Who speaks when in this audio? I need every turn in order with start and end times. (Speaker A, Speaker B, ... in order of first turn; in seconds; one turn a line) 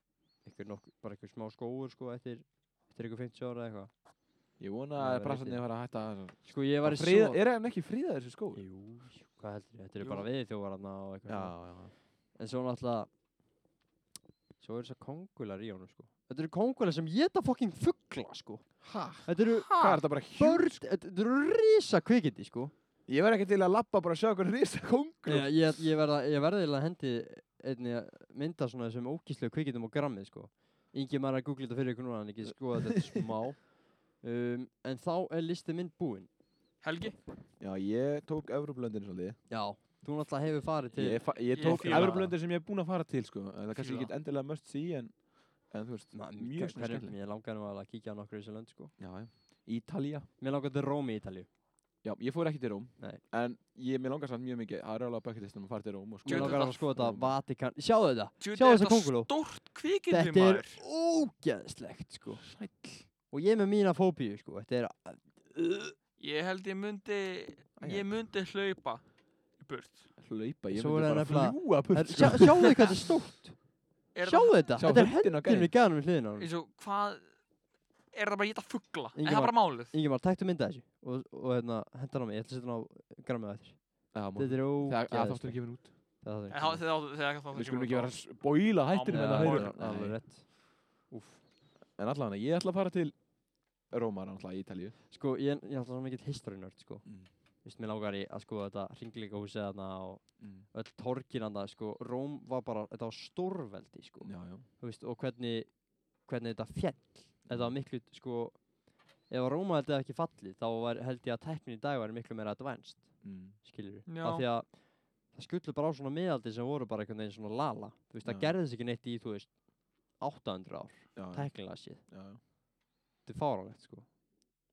Speaker A: 0.4-3.9
Speaker B: 4.6-8.6
Speaker A: 5.0-5.7
Speaker A: 6.4-7.4
Speaker A: 8.6-11.6
Speaker C: 10.0-10.3
Speaker B: 11.3-11.9
Speaker A: 12.4-13.1
Speaker A: 14.6-22.7
Speaker B: 18.8-20.8
Speaker B: 23.1-25.5
Speaker A: 25.3-36.3
Speaker B: 32.8-33.2
Speaker C: 36.8-37.2
Speaker B: 37.6-39.4
Speaker A: 39.5-42.4
Speaker B: 40.9-47.2
Speaker C: 41.5-42.2
Speaker C: 43.7-44.1
Speaker A: 46.1-48.9
Speaker B: 49.0-50.3
Speaker A: 50.4-51.5
Speaker B: 52.0-57.4
Speaker A: 56.2-59.3
Speaker C: 56.3-56.9
Speaker C: 58.4-60.8
Speaker A: 60.1-62.5
Speaker B: 62.4-63.1
Speaker A: 63.3-65.9
Speaker C: 66.2-69.0
Speaker B: 67.8-68.1
Speaker C: 69.6-70.1
Speaker B: 70.2-72.8
Speaker A: 70.7-73.6
Speaker C: 74.1-75.0
Speaker A: 74.1-76.5
Speaker B: 74.8-75.7
Speaker C: 76.4-77.3
Speaker C: 78.1-79.9
Speaker A: 79.2-86.8
Speaker B: 84.1-86.0
Speaker C: 86.5-88.3
Speaker B: 87.5-90.2
Speaker C: 88.9-89.7
Speaker A: 89.1-91.4
Speaker B: 92.0-93.2
Speaker B: 93.8-95.0
Speaker A: 95.1-97.1
Speaker A: 97.6-108.7
Speaker B: 100.4-100.7
Speaker B: 104.2-104.7
Speaker B: 107.5-107.8
Speaker A: 109.2-119.6
Speaker B: 113.2-113.6
Speaker C: 114.1-114.5
Speaker B: 118.2-118.5
Speaker A: 120.1-122.0
Speaker B: 121.2-122.4
Speaker A: 123.2-124.1